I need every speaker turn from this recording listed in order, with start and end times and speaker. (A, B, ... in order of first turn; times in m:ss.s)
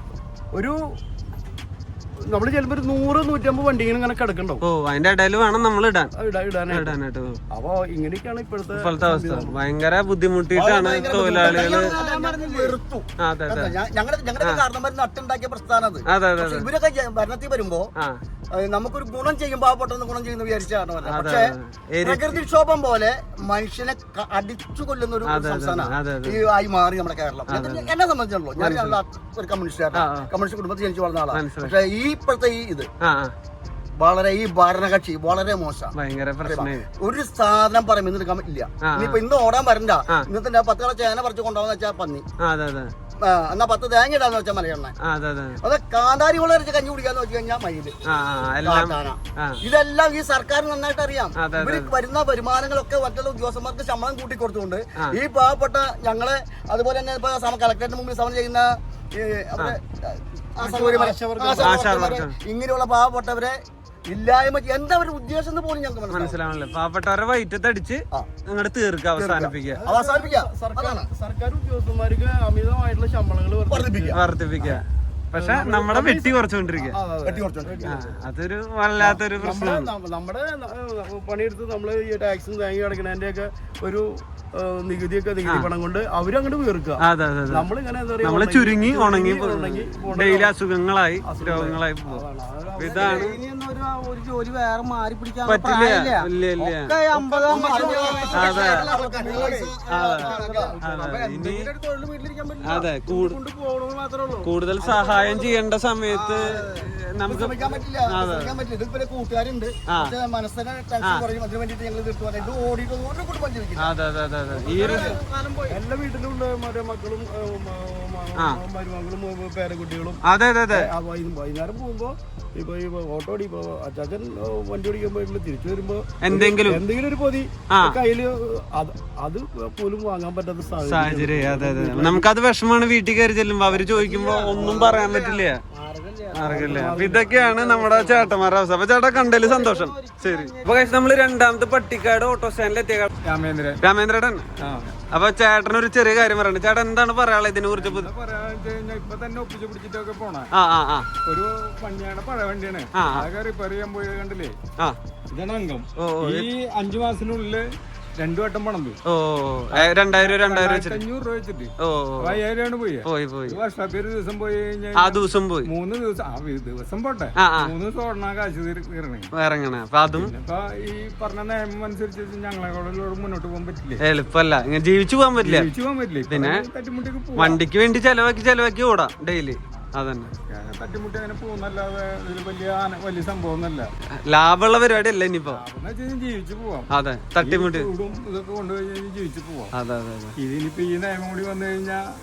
0:00.5-0:00.8 A
0:02.3-0:04.6 A
0:04.6-0:06.1 B
0:06.2-0:06.9 A
0:06.7-0:07.3 B
0:07.5-0:09.5 A
0:08.7-0:11.9 B
0:10.5-0:17.9 C
0:11.0-0:12.7 A
0:11.6-0:12.7 D
0:13.2-0:13.8 B
0:16.1-0:16.7 B
0:18.5-0:32.9 C
0:21.1-0:22.4 B
0:25.3-0:26.4 B
0:27.5-0:27.9 B
0:28.6-0:29.0 B
0:29.9-0:30.3 B
0:31.3-0:31.7 B
0:33.0-0:33.3 B
0:34.0-0:35.9 C
0:36.0-0:36.8 B
0:36.4-0:42.2 C
0:38.8-0:39.2 B
0:42.4-0:42.9 B
0:43.2-0:44.9 C
0:45.0-0:45.6 B
0:45.6-0:48.0 C
0:48.1-0:49.6 B
0:48.6-1:06.4 C
0:51.4-0:51.9 B
1:00.6-1:01.8 A
1:01.6-1:02.3 B
1:06.1-1:09.8 B
1:09.2-1:11.1 C
1:09.7-1:14.7 A
1:13.7-1:14.2 C
1:14.1-1:17.0 B
1:15.4-1:18.2 A
1:17.2-1:18.0 C
1:17.9-1:19.9 B
1:19.0-1:30.5 A
1:25.4-1:25.7 B
1:27.0-1:27.7 B
1:28.2-1:32.2 B
1:31.2-1:33.3 A
1:32.8-1:46.8 D
1:32.8-1:33.4 B
1:35.4-1:36.9 B
1:37.3-1:40.8 C
1:37.5-1:39.6 A
1:38.4-1:38.9 B
1:39.9-1:41.7 B
1:40.4-1:41.0 A
1:42.6-1:43.4 B
1:44.4-1:48.6 B
1:47.2-1:53.9 C
1:49.9-1:50.1 B
1:53.8-1:55.2 B
1:54.6-1:55.8 D
1:54.8-1:55.1 A
1:54.8-1:55.1 C
1:55.7-2:12.3 A
2:00.2-2:00.9 B
2:06.2-2:06.8 B
2:07.7-2:08.0 B
2:10.8-2:15.6 B
2:13.8-2:18.3 D
2:14.5-2:14.9 A
2:16.4-2:23.1 B
2:16.4-2:17.9 A
2:19.1-2:21.1 D
2:23.2-2:23.8 E
2:23.8-2:24.5 B
2:24.6-2:24.9 E
2:25.1-2:28.1 B
2:27.7-2:30.5 E
2:30.6-2:31.1 B
2:31.2-2:34.5 E
2:33.0-2:33.3 B
2:35.3-2:37.6 E
2:36.0-2:36.4 B
2:38.2-2:39.0 E
2:39.1-2:41.0 B
2:39.7-2:49.3 E
2:41.8-2:42.4 B
2:43.0-2:43.6 B
2:45.0-2:45.7 B
2:47.4-2:47.7 B
2:49.4-2:50.3 B
2:50.1-2:54.0 E
2:54.0-2:55.7 B
2:55.4-2:57.6 E
2:56.3-2:56.6 B
2:57.4-3:00.3 B
3:00.5-3:03.9 E
3:04.3-3:05.6 B
3:05.5-3:09.7 E
3:06.9-3:07.9 B
3:09.7-3:10.3 B
3:10.4-3:12.0 E